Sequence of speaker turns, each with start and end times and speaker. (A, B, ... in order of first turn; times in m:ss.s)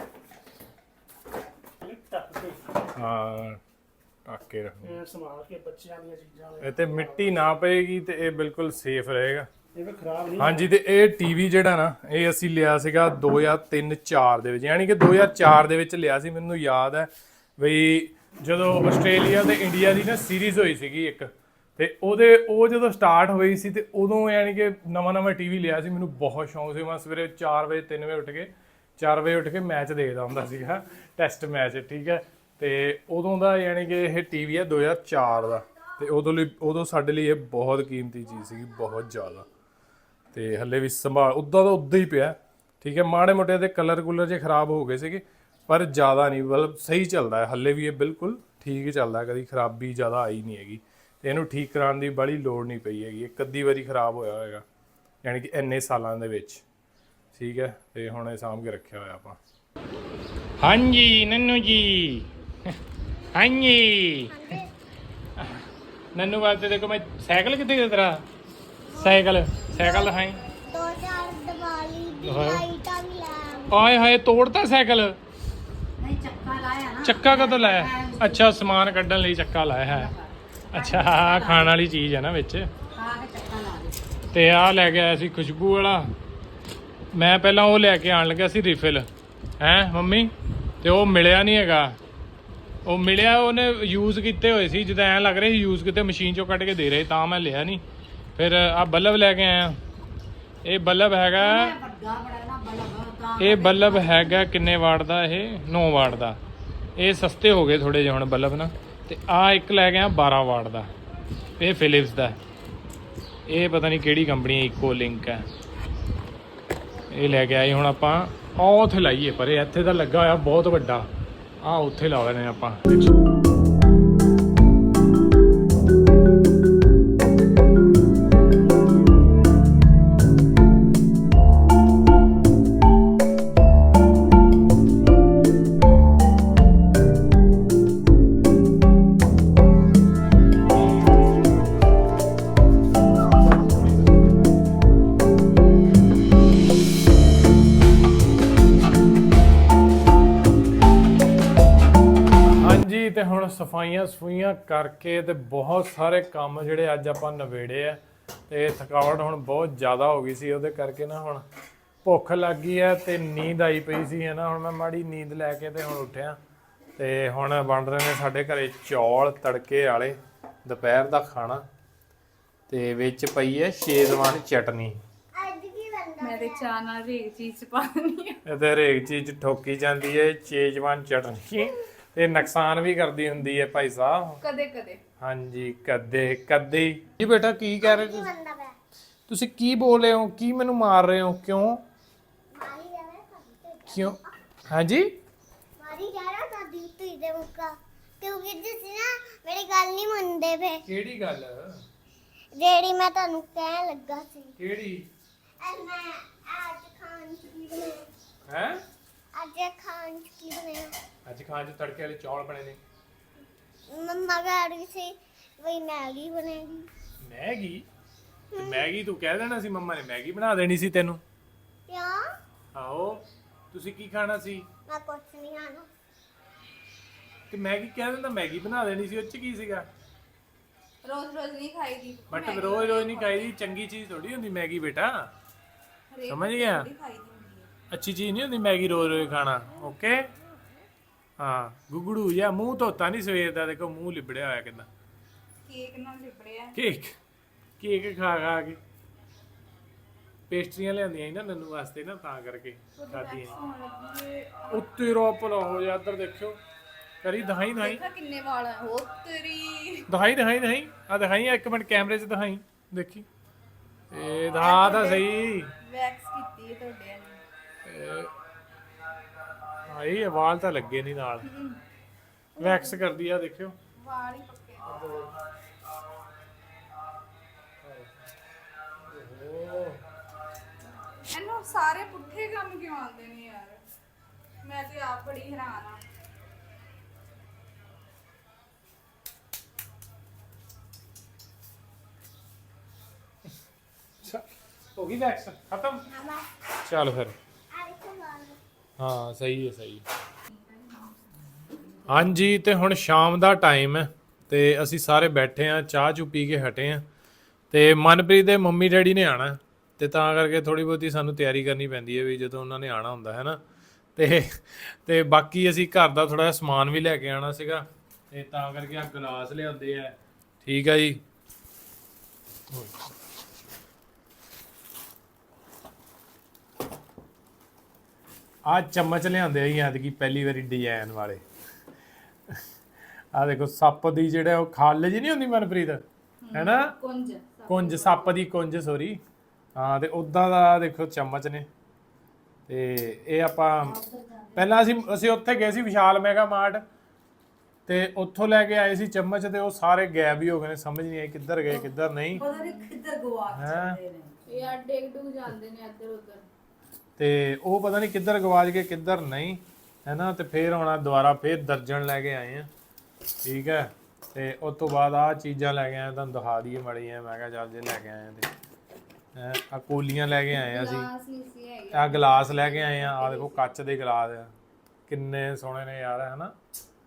0:01.8-0:02.8 A
0:03.0-0:03.6 B
0:04.3-0:05.0 B
0:04.8-0:07.4 A
0:06.6-0:09.5 B
0:09.8-0:10.7 A
0:10.4-0:39.5 B
0:40.3-0:54.6 B
0:55.2-0:56.6 B
0:57.3-0:59.4 B
1:00.6-1:02.8 B
1:03.3-1:04.6 B
1:04.3-1:04.7 C
1:05.4-1:08.2 B
1:08.9-1:10.2 C
1:09.0-1:10.4 B
1:10.7-1:13.7 C
1:12.2-1:12.7 B
1:13.7-1:15.2 B
1:16.0-1:18.6 D
1:17.0-1:20.1 B
1:19.8-1:21.8 D
1:20.7-1:22.7 B
1:22.9-1:24.0 D
1:24.3-1:26.1 B
1:27.1-1:29.1 B
1:29.6-1:32.0 B
1:32.8-1:37.8 B
1:38.4-1:39.8 B
1:40.6-1:41.8 B
1:41.3-1:44.4 D
1:43.4-1:46.4 B
1:47.0-1:50.9 B
1:51.6-1:52.4 B
1:53.5-1:55.5 B
1:57.1-2:01.1 B
2:01.6-2:03.1 B
2:32.5-2:41.4 B
2:42.0-2:46.4 B
2:47.0-2:51.6 B
2:52.7-2:55.0 B
2:55.4-2:56.7 C
2:56.2-2:58.4 E
2:58.5-3:04.4 B
3:04.4-3:05.0 E
3:05.2-3:08.3 B
3:07.8-3:08.8 C
3:09.3-3:11.8 B
3:12.5-3:14.2 C
3:13.9-3:14.2 B
3:14.7-3:15.2 B
3:15.8-3:20.8 C
3:20.8-3:21.8 B
3:22.6-3:24.5 C
3:24.6-3:25.1 B
3:25.6-3:28.1 C
3:28.5-3:28.8 B
3:29.3-3:30.9 C
3:31.2-3:32.8 B
3:33.9-3:36.9 C
3:37.2-3:37.9 B
3:38.5-3:39.0 C
3:38.6-3:41.2 B
3:41.9-3:42.2 C
3:42.7-3:44.7 B
3:44.9-3:45.9 C
3:47.5-3:49.9 B
3:51.0-3:53.6 E
3:52.3-3:55.3 B
3:56.1-3:57.7 E
3:56.3-3:56.9 B
3:57.9-4:00.3 B
4:01.4-4:04.9 B
4:05.6-4:06.8 E
4:06.8-4:07.1 B
4:07.8-4:08.8 B
4:10.5-4:13.6 B
4:12.9-4:14.9 E
4:14.7-4:16.6 B
4:17.2-4:18.0 B
4:17.8-4:20.1 E
4:20.1-4:23.2 B
4:24.1-4:25.7 B
4:24.6-4:25.3 E
4:25.8-4:27.4 E
4:27.9-4:28.3 B
4:29.8-4:31.4 B
4:31.4-4:31.8 E
4:32.6-4:33.0 E
4:32.6-4:33.8 B
4:34.0-4:35.0 E
4:34.9-4:35.3 B
4:39.1-4:40.0 B
4:41.3-4:43.8 E
4:44.6-4:46.0 E
4:55.0-4:56.0 B
4:56.1-4:56.5 C
4:56.8-4:57.4 B
4:57.7-4:58.6 C
4:59.0-5:00.0 B
5:00.5-5:01.1 E
5:01.8-5:02.4 D
5:02.1-5:07.0 B
5:07.7-5:13.6 B
5:14.2-5:21.2 B
5:22.7-5:23.0 B
5:28.6-5:31.4 B
5:33.3-5:36.9 B
5:36.4-5:38.4 E
5:37.7-5:39.2 B
5:39.8-5:41.7 B
5:42.7-5:44.0 B
5:43.8-5:44.8 D
5:44.5-5:46.8 B
5:47.9-5:52.4 B
5:51.7-5:54.6 D
5:52.3-5:52.9 E
5:53.5-5:54.0 B
5:54.5-5:56.5 E
5:57.2-6:02.7 B
6:03.4-6:08.5 B
6:09.4-6:11.1 B
6:10.5-6:13.7 E
6:11.9-6:14.5 B
6:15.1-6:16.5 B